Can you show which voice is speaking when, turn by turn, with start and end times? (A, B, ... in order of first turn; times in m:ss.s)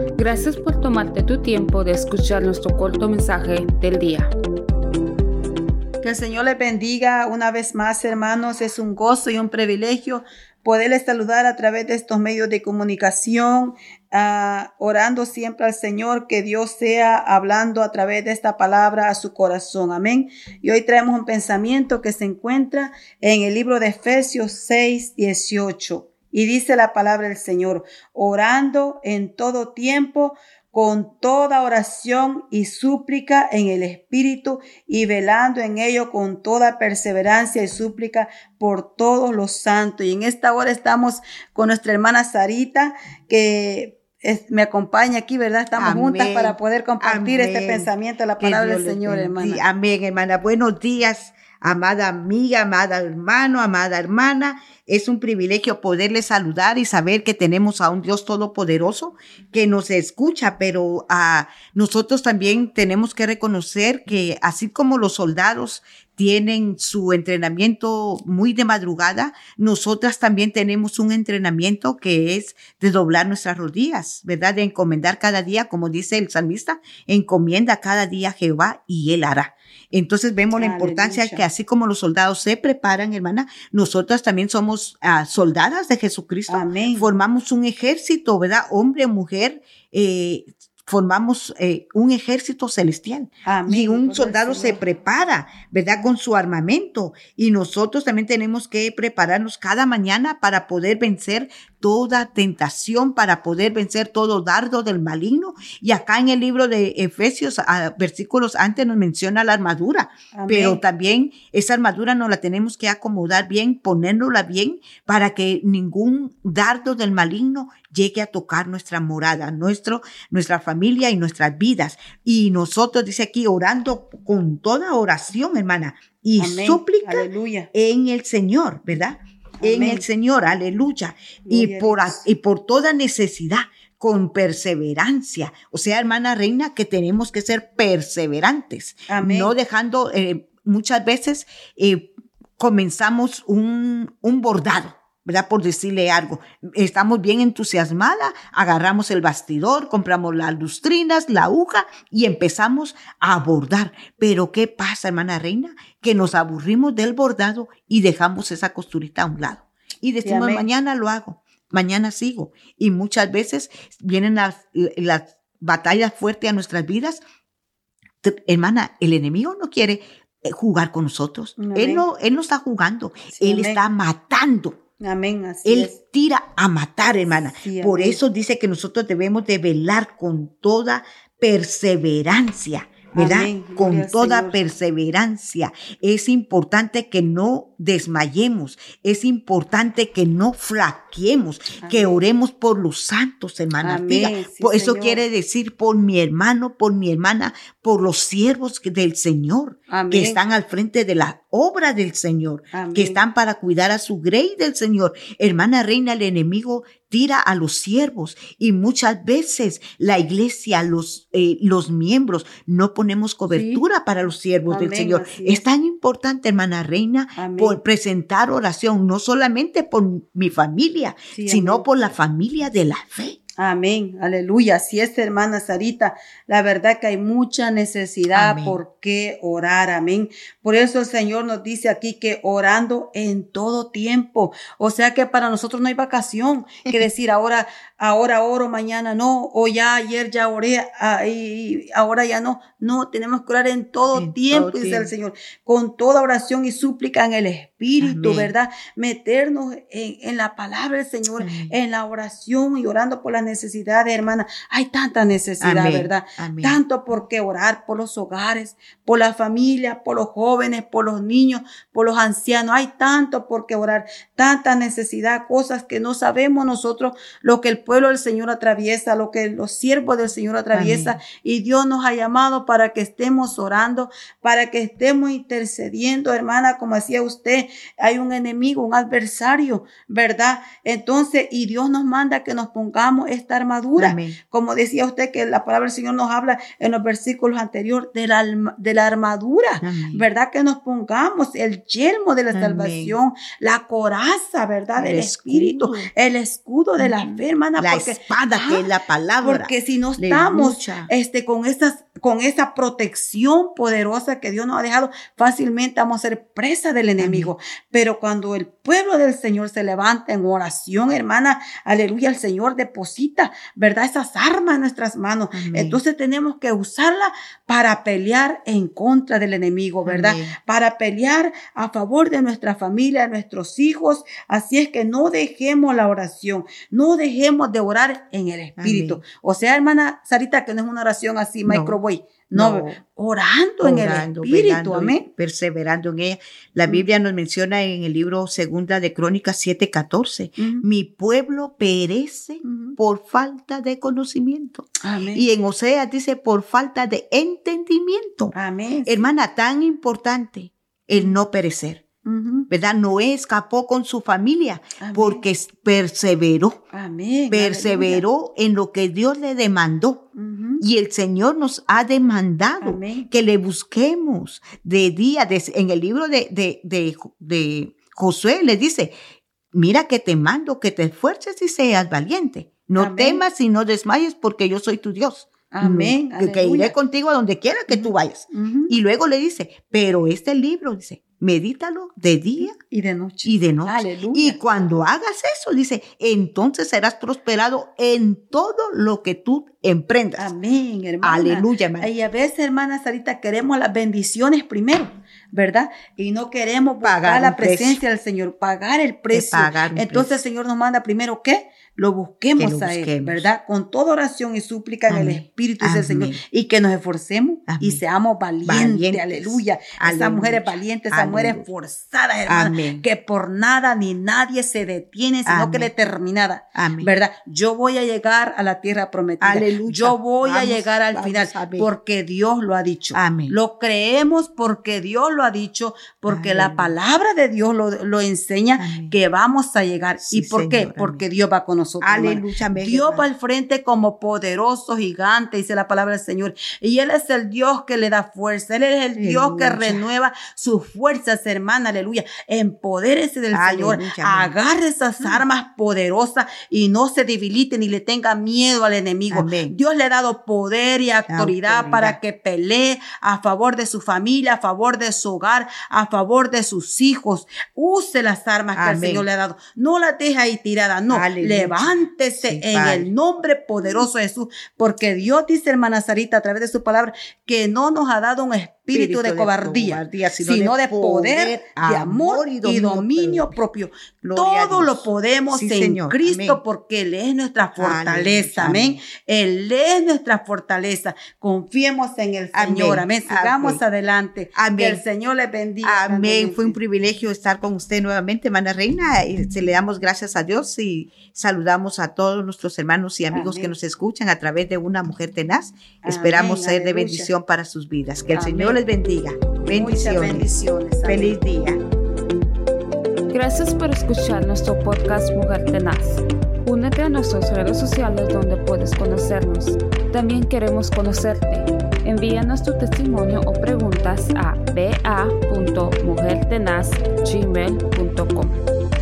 0:00.2-0:04.3 A
0:06.0-0:49.6 B
0:45.8-2:47.2 C
1:20.6-1:21.5 B
1:26.5-1:27.1 B
1:33.4-1:34.8 B
1:50.3-1:50.8 B
2:06.4-2:07.7 B
2:09.6-2:10.1 B
2:11.5-2:12.3 B
2:19.1-2:19.6 B
2:40.2-2:40.7 B
2:48.2-2:54.8 C
2:51.6-2:52.0 B
2:53.4-2:53.8 B
2:55.0-2:56.0 B
2:55.6-3:43.4 C
2:57.5-2:58.2 B
3:03.1-3:04.6 B
3:11.8-3:12.2 B
3:13.8-3:15.2 B
3:19.9-3:20.4 B
3:22.7-3:23.2 B
3:33.5-3:33.8 B
3:34.7-3:35.6 B
3:37.4-3:37.8 B
3:41.3-3:41.8 B
3:43.6-4:58.9 B
3:48.3-3:48.8 C
4:04.1-4:05.1 C
4:08.0-4:08.5 C
4:11.4-4:11.8 C
4:15.6-4:16.8 C
4:30.7-4:31.2 C
4:44.0-4:44.4 C
4:49.8-4:50.3 C
4:52.5-4:53.2 C
4:55.0-4:56.1 C
4:57.0-5:01.1 C
4:59.4-5:35.3 B
5:07.2-5:07.5 C
5:15.5-5:16.0 C
5:20.1-5:20.6 C
5:28.8-5:29.2 C
5:31.6-5:32.0 C
5:32.5-5:33.0 C
5:33.8-5:48.5 C
5:40.6-5:40.8 B
5:42.6-5:43.0 B
5:45.0-5:45.5 B
5:48.5-5:49.3 B
5:49.1-5:52.0 C
5:52.2-5:52.7 B
5:52.7-5:56.8 C
5:55.0-5:55.4 B
5:56.9-5:58.2 B
5:57.5-6:00.2 C
6:00.4-6:00.8 B
6:00.8-6:09.1 C
6:02.8-6:03.3 B
6:09.7-6:22.8 C
6:13.0-6:13.4 B
6:15.7-6:17.0 B
6:17.9-6:19.0 B
6:22.6-6:24.6 B
6:23.4-6:30.5 C
6:30.4-8:06.8 B
6:31.2-6:32.1 C
6:37.0-6:38.0 C
6:39.3-6:40.4 C
6:42.6-6:43.5 C
6:45.1-6:46.4 C
6:47.7-6:48.0 C
6:48.6-6:51.7 C
6:52.5-6:53.0 C
6:55.5-6:55.9 C
6:56.8-6:57.1 C
6:59.4-7:01.9 C
7:03.1-7:03.6 C
7:06.3-7:06.9 C
7:08.8-7:09.2 C
7:10.2-7:11.2 C
7:12.0-7:13.3 C
7:19.2-7:20.0 C
7:23.5-7:24.5 C
7:29.3-7:29.8 C
7:31.3-7:32.2 C
7:38.8-7:39.3 C
7:41.1-7:43.1 C
7:48.9-7:53.5 C
7:54.2-7:56.6 C
7:57.8-7:59.0 C
8:02.5-8:03.8 C
8:04.5-8:05.0 C
8:05.8-8:21.8 C
8:13.3-8:13.8 B
8:16.0-8:17.3 B
8:18.3-8:18.8 B
8:19.6-8:21.4 B
8:23.3-8:38.6 A